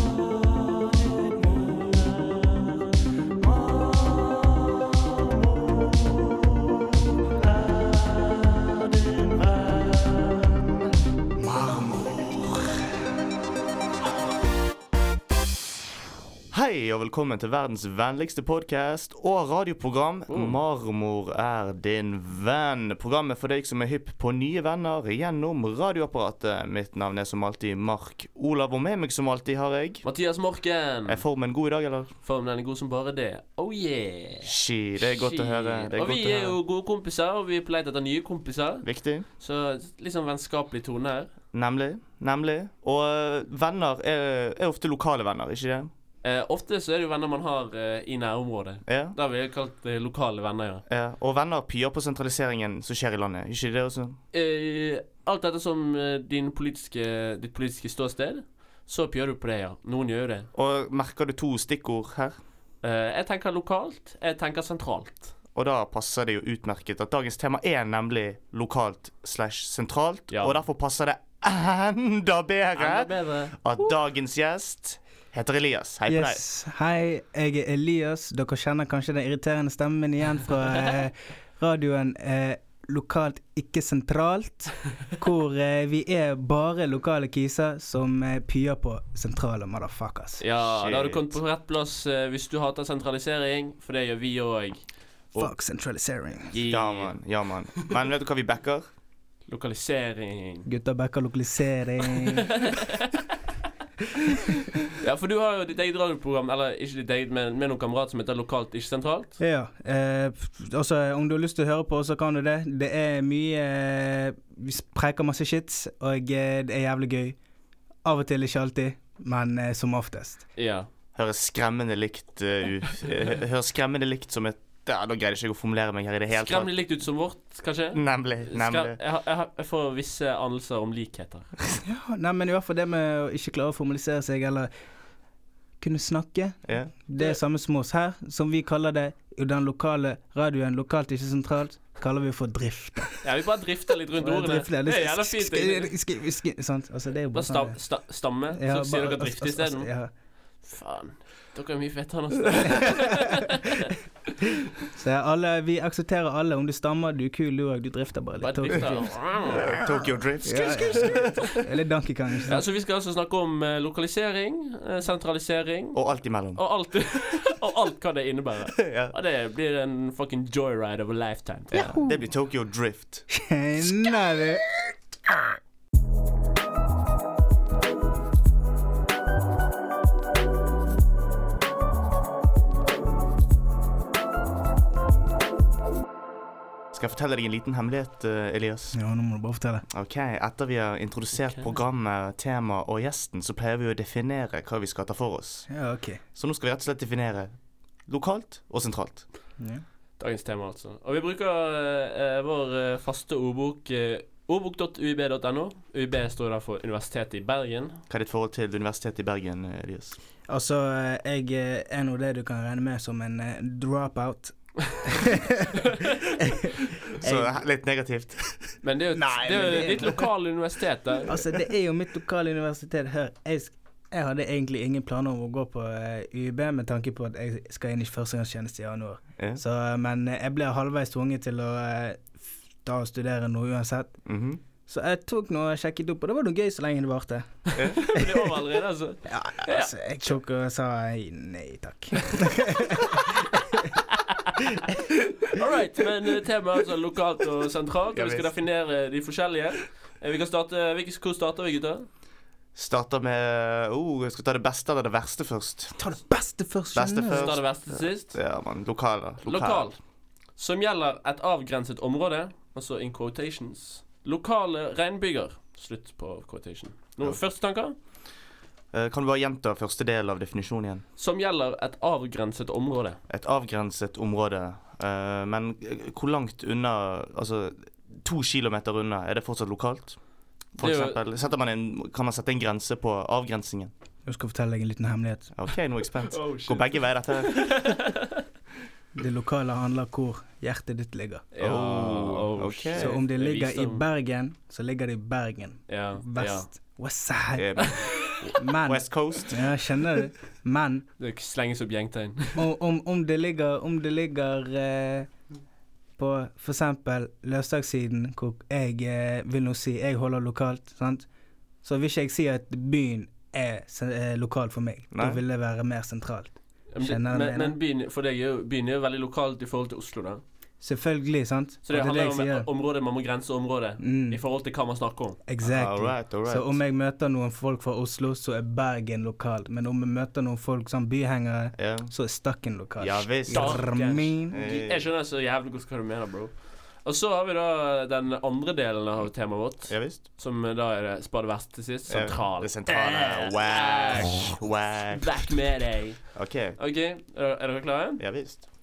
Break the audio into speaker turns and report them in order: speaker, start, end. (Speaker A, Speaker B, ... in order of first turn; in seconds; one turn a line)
Speaker A: 1.2-1.5
Speaker A: 9.0-10.9
Speaker A: 11.4-12.8
Speaker B: 11.4-12.2
Speaker A: 16.5-30.1
Speaker C: 20.3-20.6
Speaker C: 30.0-31.2
Speaker A: 31.1-32.1
Speaker C: 32.2-38.9
Speaker A: 34.4-36.6
Speaker A: 38.8-39.3
Speaker C: 39.4-41.3
Speaker A: 41.5-45.9
Speaker C: 46.2-50.9
Speaker A: 48.9-49.2
Speaker A: 50.9-54.2
Speaker C: 54.3-60.5
Speaker A: 60.5-62.4
Speaker C: 62.8-65.3
Speaker A: 65.5-76.4
Speaker C: 70.3-70.6
Speaker C: 72.8-73.5
Speaker B: 76.1-90.4
Speaker C: 90.4-94.8
Speaker A: 90.7-91.3
Speaker B: 95.4-96.5
Speaker C: 96.5-97.2
Speaker A: 96.7-98.9
Speaker C: 99.5-100.7
Speaker B: 100.7-102.6
Speaker C: 102.3-103.2
Speaker C: 105.0-109.4
Speaker B: 109.4-117.4
Speaker B: 118.0-120.5
Speaker C: 120.6-120.9
Speaker A: 121.2-126.7
Speaker C: 126.3-131.5
Speaker A: 127.9-129.0
Speaker B: 131.8-134.7
Speaker B: 135.8-143.2
Speaker A: 136.7-136.9
Speaker C: 143.2-145.9
Speaker B: 144.2-147.8
Speaker C: 147.3-149.9
Speaker B: 148.5-150.1
Speaker C: 150.6-153.9
Speaker B: 154.9-159.8
Speaker C: 158.4-159.8
Speaker A: 159.4-161.5
Speaker B: 160.4-162.6
Speaker C: 160.8-161.6
Speaker C: 162.5-166.0
Speaker A: 165.9-166.6
Speaker C: 166.6-171.9
Speaker A: 168.8-169.1
Speaker A: 171.7-173.3
Speaker B: 171.7-172.3
Speaker B: 173.3-174.7
Speaker B: 175.3-175.6
Speaker A: 186.9-189.0
Speaker B: 188.9-189.9
Speaker A: 189.9-195.7
Speaker B: 195.7-196.2
Speaker A: 196.3-197.5
Speaker A: 198.1-199.3
Speaker B: 199.6-199.8
Speaker C: 200.2-208.0
Speaker A: 208.1-210.2
Speaker B: 210.5-217.6
Speaker C: 215.8-216.1
Speaker A: 217.2-218.7
Speaker C: 218.8-221.3
Speaker B: 219.2-220.3
Speaker B: 221.3-234.2
Speaker A: 234.3-234.6
Speaker B: 234.9-238.5
Speaker C: 237.7-239.9
Speaker A: 237.8-238.0
Speaker B: 239.3-244.0
Speaker C: 244.1-244.5
Speaker B: 244.6-245.0
Speaker C: 245.4-252.1
Speaker A: 248.1-248.5
Speaker A: 252.8-256.0
Speaker B: 256.0-257.5
Speaker A: 256.9-259.9
Speaker C: 257.3-258.4
Speaker C: 259.4-260.0
Speaker C: 260.6-268.0
Speaker A: 268.9-271.0
Speaker C: 271.2-273.2
Speaker A: 273.3-280.2
Speaker A: 280.8-283.9
Speaker C: 280.8-281.2
Speaker B: 284.3-285.5
Speaker A: 285.6-287.9
Speaker C: 286.3-288.4
Speaker B: 289.1-291.4
Speaker C: 291.5-294.1
Speaker A: 291.6-293.2
Speaker B: 292.9-298.0
Speaker C: 295.9-296.7
Speaker A: 297.6-299.7
Speaker C: 297.8-298.5
Speaker B: 298.6-301.1
Speaker C: 301.2-302.7
Speaker B: 302.6-305.3
Speaker B: 306.2-311.3
Speaker B: 311.8-317.8
Speaker A: 315.1-315.4
Speaker C: 316.9-320.4
Speaker B: 320.8-322.7
Speaker C: 321.9-325.4
Speaker B: 324.0-324.4
Speaker B: 325.5-334.6
Speaker A: 325.6-326.8
Speaker A: 331.8-332.1
Speaker A: 333.0-333.9
Speaker C: 333.5-344.6
Speaker A: 334.5-335.1
Speaker A: 339.9-340.2
Speaker A: 342.1-345.5
Speaker C: 345.1-348.2
Speaker A: 346.4-346.8
Speaker A: 348.2-348.6